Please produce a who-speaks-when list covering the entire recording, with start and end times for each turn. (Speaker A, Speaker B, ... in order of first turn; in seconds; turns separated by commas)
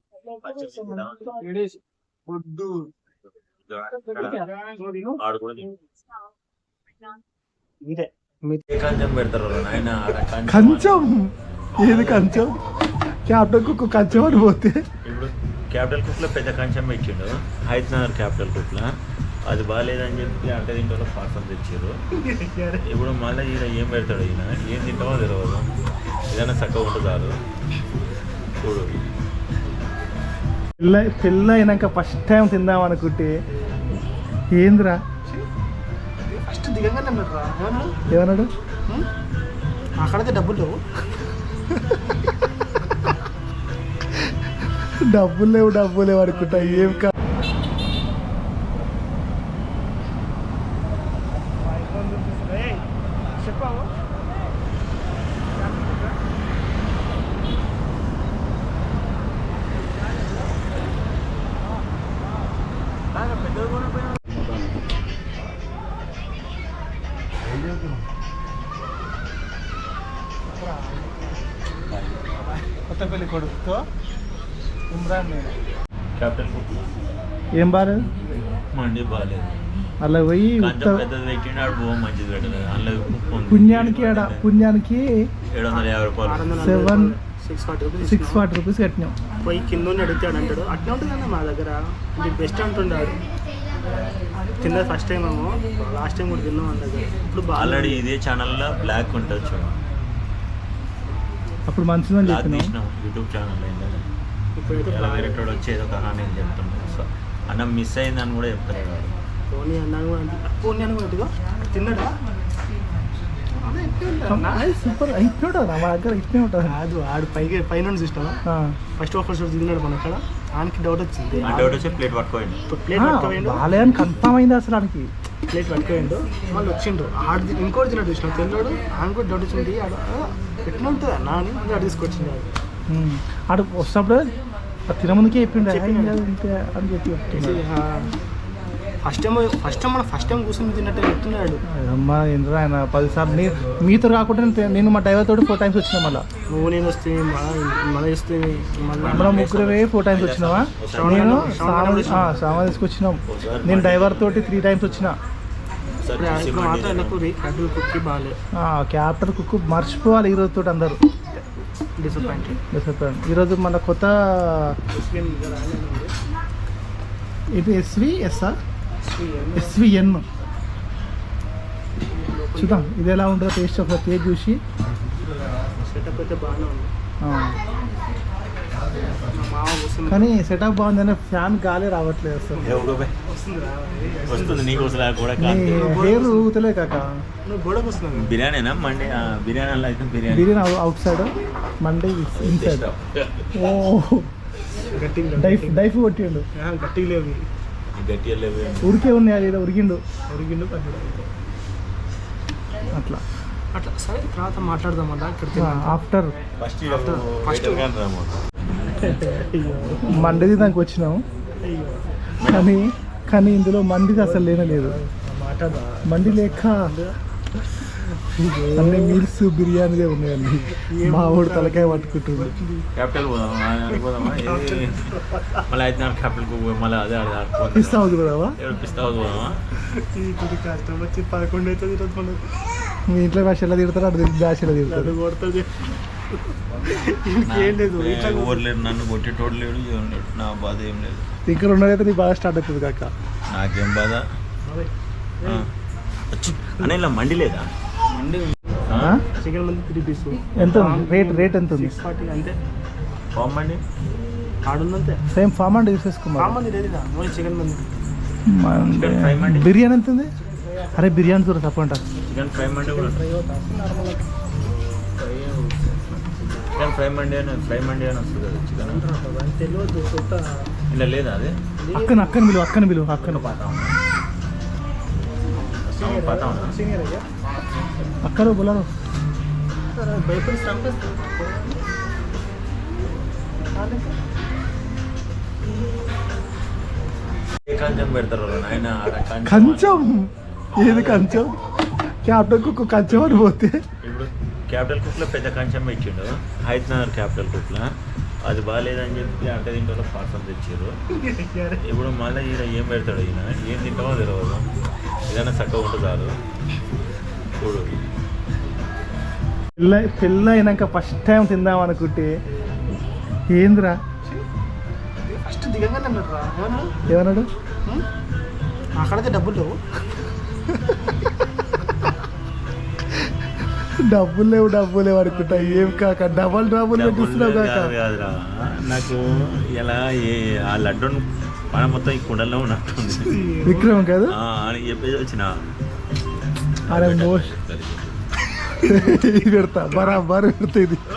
Speaker A: 0.4-1.3, Speaker B: 1.4-1.7, Speaker B: 2.3-2.8, Speaker A: 3.7-4.4, Speaker B: 4.2-5.2, Speaker A: 5.2-5.7, Speaker B: 7.8-8.6, Speaker A: 8.7-11.1, Speaker C: 10.4-12.6, Speaker A: 11.7-12.4, Speaker C: 13.3-14.8, Speaker A: 13.6-14.5, Speaker A: 15.0-18.9, Speaker A: 19.5-21.9, Speaker B: 22.1-22.8, Speaker A: 22.9-25.7, Speaker A: 26.3-27.3, Speaker A: 28.6-29.0, Speaker C: 30.8-33.3, Speaker C: 34.5-35.0, Speaker B: 36.3-37.9, Speaker C: 38.1-38.5, Speaker B: 40.0-40.8, Speaker C: 45.1-47.1, Speaker B: 46.3-47.1, Speaker B: 51.6-52.8, Speaker B: 53.4-53.9, Speaker A: 63.3-63.9, Speaker C: 70.6-71.1, Speaker A: 71.9-72.2, Speaker C: 72.9-73.8, Speaker C: 74.9-75.5, Speaker A: 76.2-76.9, Speaker C: 77.6-78.1, Speaker A: 78.7-79.5, Speaker C: 80.0-81.0, Speaker A: 80.6-84.5, Speaker C: 83.5-85.0, Speaker A: 85.5-86.7, Speaker B: 85.7-88.5, Speaker C: 86.6-87.2, Speaker C: 88.0-89.1, Speaker B: 89.4-93.3, Speaker B: 94.6-98.0, Speaker A: 97.5-99.8, Speaker C: 101.7-102.7, Speaker A: 102.2-104.1, Speaker B: 104.6-105.4, Speaker A: 104.7-109.1, Speaker B: 109.5-112.2, Speaker B: 113.6-114.6, Speaker C: 114.3-116.7, Speaker B: 116.7-118.4, Speaker C: 118.5-118.7, Speaker B: 119.0-121.8, Speaker A: 121.4-122.6, Speaker B: 122.7-123.7, Speaker C: 123.0-125.1, Speaker B: 125.5-132.5, Speaker C: 132.9-134.3, Speaker C: 134.9-137.6, Speaker B: 135.6-136.2, Speaker B: 137.3-138.1, Speaker B: 139.0-141.6, Speaker C: 141.7-146.2, Speaker B: 146.5-149.4, Speaker A: 149.0-151.6, Speaker C: 149.1-155.2, Speaker B: 150.9-152.3, Speaker A: 153.2-154.4, Speaker A: 156.0-157.2, Speaker B: 156.1-158.3, Speaker C: 158.6-161.0, Speaker B: 162.0-162.6, Speaker C: 162.7-164.7, Speaker B: 164.9-166.1, Speaker C: 167.6-168.5, Speaker B: 169.0-169.8, Speaker C: 169.5-170.2, Speaker B: 172.1-172.9, Speaker C: 172.6-174.6, Speaker B: 175.8-176.9, Speaker C: 177.2-177.6, Speaker B: 179.2-180.3, Speaker C: 180.1-182.7, Speaker A: 182.6-183.1, Speaker B: 182.8-185.0, Speaker A: 184.3-185.9, Speaker C: 185.4-187.1, Speaker B: 185.7-186.5, Speaker B: 187.4-188.4, Speaker A: 188.1-190.6, Speaker C: 190.3-191.3, Speaker C: 191.8-192.8, Speaker A: 192.3-193.5, Speaker C: 193.5-194.3, Speaker B: 194.9-195.8, Speaker C: 195.4-196.4, Speaker B: 196.5-197.4, Speaker A: 197.9-198.9, Speaker C: 198.8-200.0, Speaker B: 200.3-201.2, Speaker C: 202.9-203.2, Speaker B: 203.7-205.9, Speaker C: 205.5-206.3, Speaker A: 206.6-208.4, Speaker B: 206.9-207.9, Speaker B: 208.9-210.7, Speaker C: 210.1-211.2, Speaker B: 211.6-212.0, Speaker A: 212.4-212.7, Speaker C: 212.4-215.0, Speaker B: 214.2-217.1, Speaker C: 216.1-216.9, Speaker B: 218.0-219.2, Speaker C: 218.7-222.5, Speaker B: 220.8-222.9, Speaker A: 222.9-225.0, Speaker B: 223.9-225.6, Speaker A: 225.7-229.6, Speaker C: 227.7-228.6, Speaker B: 229.9-232.5, Speaker C: 233.1-235.2, Speaker B: 234.8-235.8, Speaker B: 236.5-238.7, Speaker A: 237.4-241.3, Speaker C: 241.4-243.1, Speaker A: 243.5-244.2, Speaker B: 244.6-244.9, Speaker A: 246.3-249.2, Speaker C: 248.9-249.2, Speaker B: 249.4-252.6, Speaker C: 250.6-252.0, Speaker A: 253.3-253.8, Speaker B: 254.7-255.2, Speaker C: 255.3-256.6, Speaker B: 256.4-257.9, Speaker C: 258.5-260.3, Speaker A: 258.8-259.7, Speaker B: 260.5-261.2, Speaker C: 260.9-262.0, Speaker A: 262.3-263.2, Speaker B: 262.6-264.3, Speaker B: 265.2-266.4, Speaker A: 266.7-269.0, Speaker B: 268.8-270.4, Speaker A: 270.9-271.5, Speaker B: 271.8-272.5, Speaker C: 271.9-273.6, Speaker A: 273.2-273.9, Speaker B: 275.5-277.3, Speaker A: 275.9-276.8, Speaker C: 278.2-278.9, Speaker B: 279.9-281.8, Speaker B: 283.7-284.1, Speaker A: 287.7-290.0, Speaker C: 289.4-291.6, Speaker A: 290.7-291.4, Speaker C: 292.2-293.8, Speaker A: 292.5-293.5, Speaker A: 294.0-297.9, Speaker A: 298.4-300.9, Speaker B: 301.1-301.8, Speaker A: 301.9-304.6, Speaker A: 305.3-306.3, Speaker A: 307.6-308.0, Speaker C: 309.8-312.3, Speaker C: 313.5-314.0, Speaker B: 315.3-316.9, Speaker C: 317.1-317.5, Speaker B: 319.0-319.8, Speaker C: 324.0-327.9, Speaker B: 325.3-326.1, Speaker A: 326.9-333.3, Speaker B: 333.1-334.0, Speaker C: 333.6-334.4, Speaker A: 334.3-335.5, Speaker A: 336.9-338.2, Speaker C: 336.9-337.5, Speaker B: 338.8-339.3, Speaker C: 338.8-341.0